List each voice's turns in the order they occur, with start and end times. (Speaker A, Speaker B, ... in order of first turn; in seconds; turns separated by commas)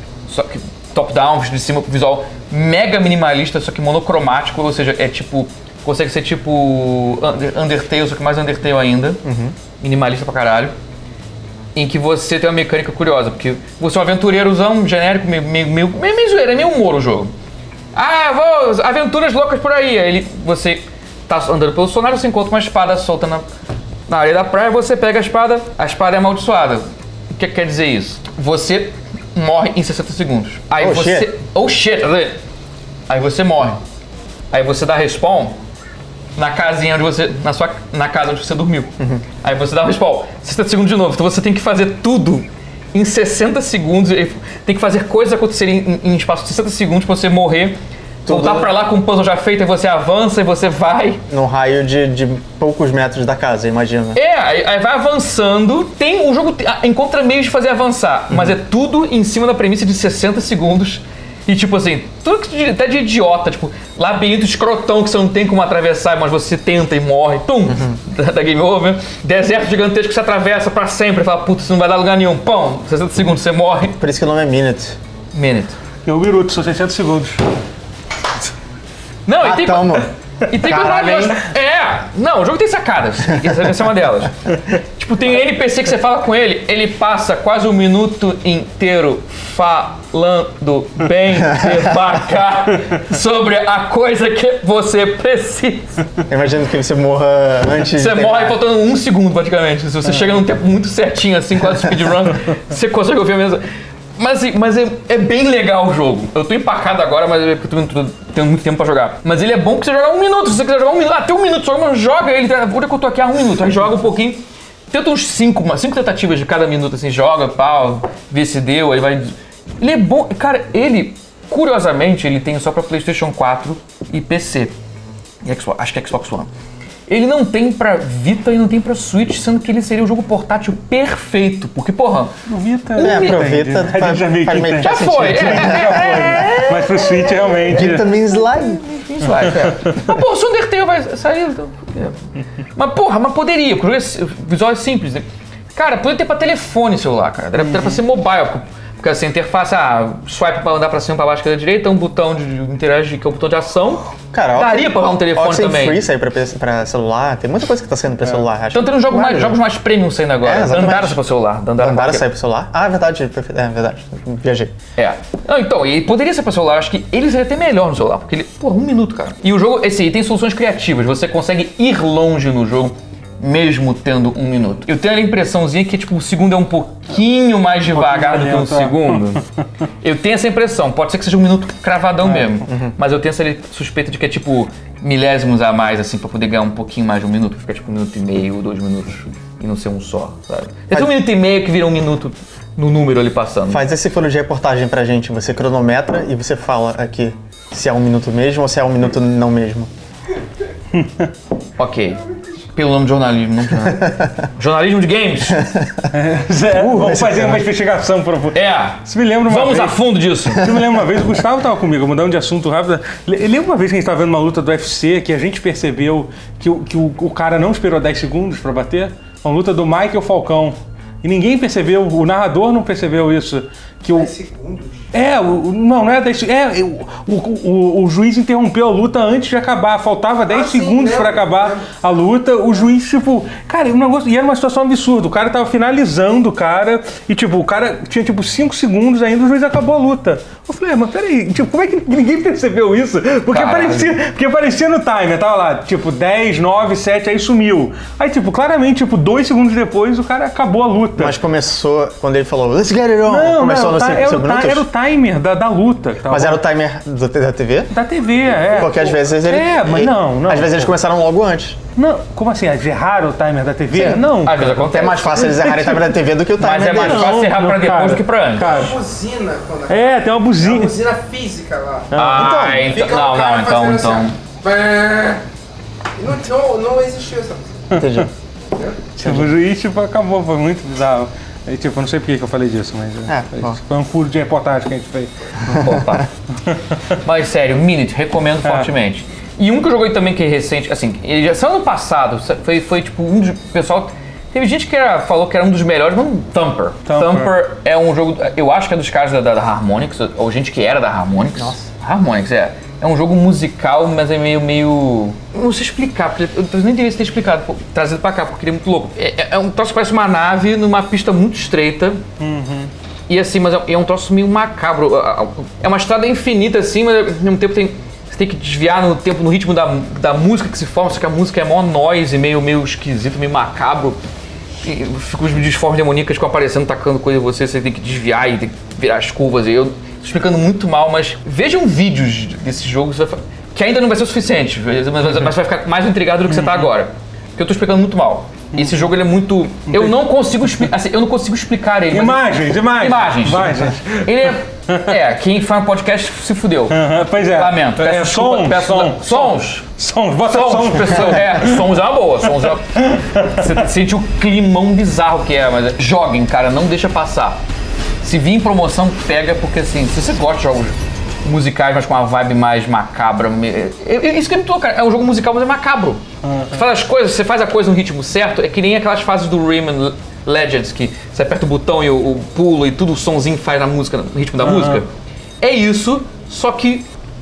Speaker A: 0.3-9.2, Speaker B: 9.2-9.6, Speaker A: 9.8-10.7, Speaker A: 11.7-17.3, Speaker A: 17.9-23.4, Speaker A: 24.1-32.4, Speaker B: 30.8-31.3, Speaker A: 33.1-33.8, Speaker A: 34.5-35.6, Speaker A: 36.4-51.2, Speaker B: 48.2-48.7, Speaker B: 51.3-54.2, Speaker A: 54.1-74.0, Speaker B: 67.7-68.0, Speaker B: 74.0-75.0, Speaker A: 75.3-75.8, Speaker C: 76.0-77.4, Speaker A: 79.2-96.0, Speaker B: 79.4-81.4, Speaker B: 91.5-91.9, Speaker B: 96.3-98.6, Speaker A: 97.9-103.6, Speaker A: 104.2-124.7, Speaker A: 125.4-126.5, Speaker A: 127.1-132.3, Speaker C: 132.5-138.1, Speaker A: 132.9-133.5, Speaker B: 133.0-136.6, Speaker A: 134.8-137.6, Speaker B: 137.7-139.6, Speaker A: 138.6-142.2, Speaker C: 139.2-140.0, Speaker A: 142.8-156.1, Speaker B: 154.3-159.6, Speaker A: 158.7-162.2, Speaker B: 160.4-161.2, Speaker B: 161.8-164.8, Speaker A: 165.0-179.4, Speaker C: 177.9-179.4, Speaker A: 180.0-193.8, Speaker B: 182.7-182.9, Speaker B: 190.9-191.2, Speaker B: 193.7-199.9, Speaker C: 200.9-201.3, Speaker A: 201.8-205.7, Speaker B: 205.5-206.1, Speaker C: 206.1-224.3, Speaker B: 206.7-207.6, Speaker A: 208.5-210.7, Speaker D: 224.1-225.1, Speaker C: 225.1-251.4, Speaker D: 230.5-231.9, Speaker A: 243.5-244.1, Speaker B: 251.2-254.9, Speaker C: 253.2-256.6, Speaker B: 256.3-257.9, Speaker C: 257.9-260.9, Speaker B: 258.6-261.8, Speaker C: 261.9-266.1, Speaker B: 263.9-267.4, Speaker A: 264.4-265.6, Speaker A: 266.6-268.8, Speaker C: 266.8-269.0, Speaker D: 268.6-272.1, Speaker C: 269.9-271.0, Speaker C: 272.1-272.6, Speaker A: 272.1-274.4, Speaker B: 272.2-272.9, Speaker D: 272.8-275.4, Speaker D: 276.2-278.0, Speaker B: 277.9-278.3, Speaker C: 277.9-278.3, Speaker D: 278.7-279.0, Speaker C: 279.1-285.8, Speaker B: 279.2-279.5, Speaker B: 283.3-283.8, Speaker A: 285.7-286.3, Speaker A: 287.2-312.2, Speaker C: 288.6-288.9, Speaker C: 297.1-297.5, Speaker B: 301.6-301.9, Speaker C: 312.4-312.9, Speaker A: 313.3-324.2, Speaker A: 324.8-349.9, Speaker C: 336.5-336.9, Speaker C: 342.1-345.1, Speaker C: 346.9-351.9, Speaker A: 350.5-357.6, Speaker C: 352.9-353.8, Speaker A: 358.2-375.1, Speaker C: 366.4-366.8, Speaker C: 374.6-375.0, Speaker A: 375.6-377.1